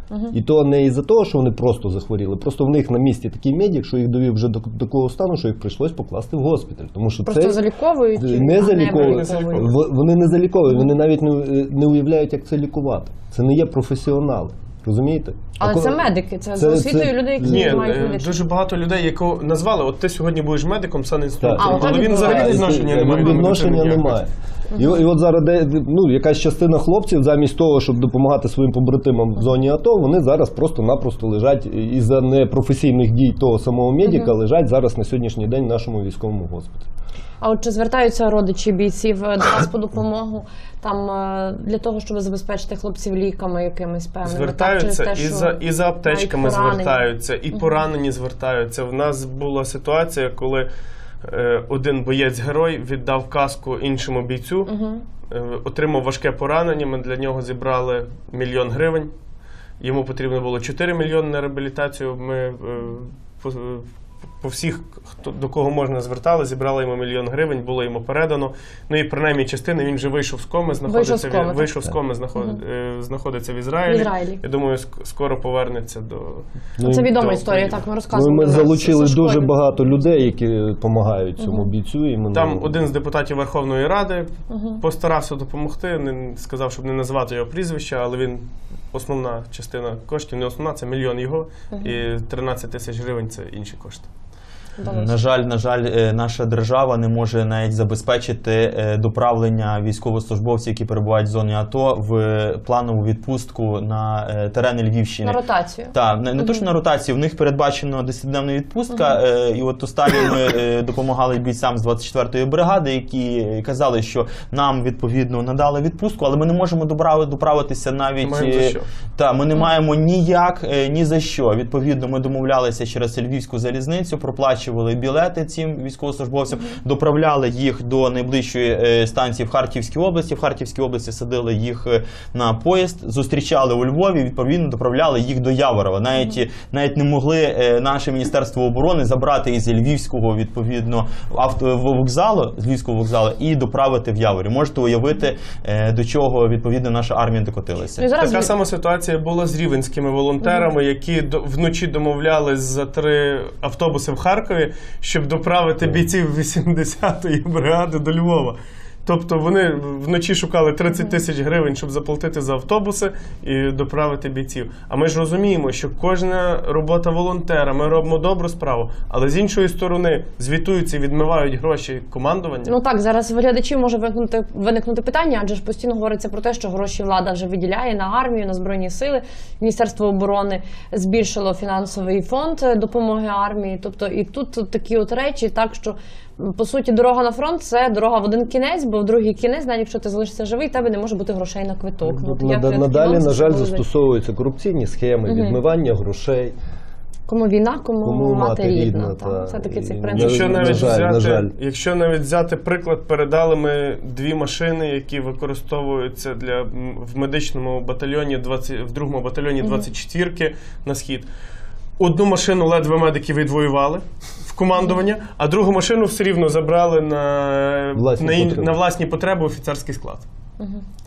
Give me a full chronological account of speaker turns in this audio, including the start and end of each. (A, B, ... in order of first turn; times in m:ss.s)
0:00.3-0:07.6 A
0:07.2-0:09.7 B
0:08.2-0:16.0 A
0:08.8-0:09.7 C
0:15.6-0:18.4 B
0:16.6-0:18.0 A
0:17.4-0:24.2 C
0:21.4-0:36.9 A
0:21.6-0:22.7 B
0:34.0-0:34.3 B
0:37.4-0:47.0 B
0:44.2-0:50.7 C
0:47.5-0:47.8 B
0:51.2-0:54.7 C
0:54.7-0:55.0 B
0:55.2-0:59.1 C
0:59.8-1:03.9 C
1:04.4-1:17.8 C
1:10.9-1:11.7 B
1:13.9-1:14.4 B
1:16.8-1:17.1 A
1:16.8-1:19.5 B
1:18.1-1:22.8 A
1:21.4-1:21.7 B
1:22.3-1:34.1 C
1:24.5-1:24.8 B
1:34.8-1:35.1 B
1:34.8-1:45.4 D
1:45.2-1:46.6 B
1:45.9-2:28.1 D
1:58.2-1:58.9 C
2:28.0-2:28.5 B
2:28.2-2:52.7 C
2:30.4-2:30.7 B
2:40.9-2:41.2 B
2:52.6-3:13.8 B
3:12.0-3:16.5 A
3:15.3-3:15.6 B
3:17.3-3:21.0 B
3:18.0-3:21.5 A
3:20.1-3:31.3 C
3:29.6-3:29.9 B
3:32.0-3:40.3 C
3:37.9-3:38.8 A